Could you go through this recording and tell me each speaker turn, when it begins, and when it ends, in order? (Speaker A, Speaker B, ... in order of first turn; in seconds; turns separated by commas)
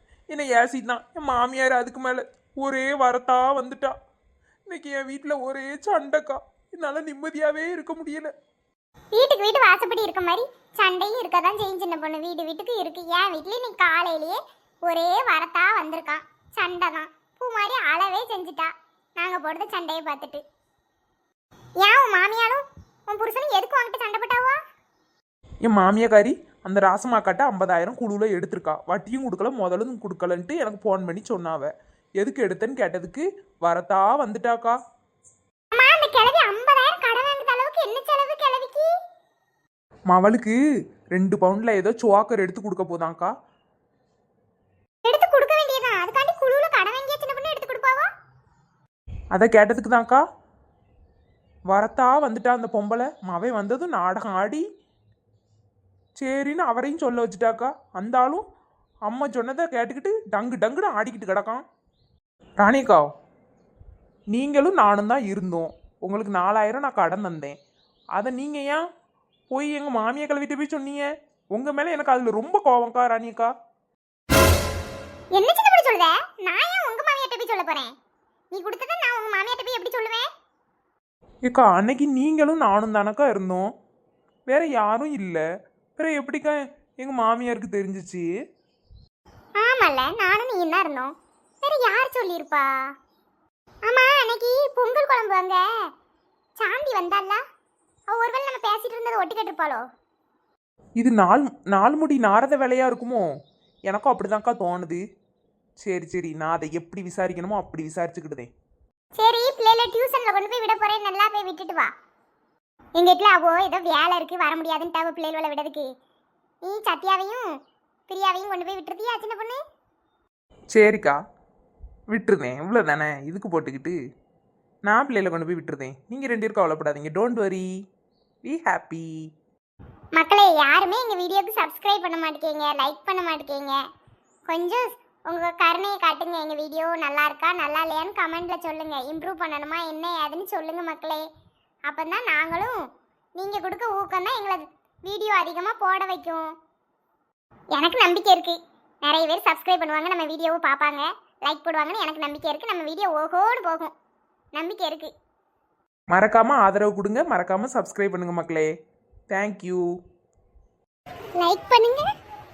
Speaker A: 0.3-3.9, Speaker A: 4.7-8.3, Speaker B: 9.1-20.4, Speaker B: 21.8-24.6, Speaker A: 25.6-34.8, Speaker B: 35.7-38.9, Speaker A: 40.1-40.6, Speaker A: 41.1-43.3, Speaker B: 45.0-48.1, Speaker A: 49.3-50.2, Speaker A: 51.7-54.6, Speaker A: 56.2-58.4, Speaker A: 59.0-61.6, Speaker A: 62.6-63.0, Speaker A: 64.3-67.6, Speaker A: 68.2-68.8, Speaker A: 69.5-73.5, Speaker B: 75.3-77.9, Speaker B: 78.5-80.3, Speaker A: 81.5-83.7, Speaker A: 84.5-85.4, Speaker A: 86.0-88.3, Speaker B: 89.6-92.7, Speaker B: 93.8-95.6, Speaker B: 96.6-97.4, Speaker B: 98.1-99.8, Speaker A: 101.0-103.3, Speaker A: 103.9-105.0, Speaker A: 105.8-108.5, Speaker B: 109.2-111.9, Speaker B: 113.0-115.9, Speaker B: 116.6-117.5, Speaker B: 118.1-119.6, Speaker A: 120.7-121.2, Speaker A: 122.1-124.0, Speaker A: 124.8-127.7, Speaker A: 128.4-129.3, Speaker B: 130.1-133.8, Speaker B: 134.5-141.2, Speaker B: 141.8-142.8, Speaker B: 143.3-146.5, Speaker B: 147.7-153.9, Speaker B: 154.5-155.1, Speaker A: 156.1-158.7, Speaker A: 159.3-159.9, Speaker B: 161.4-162.1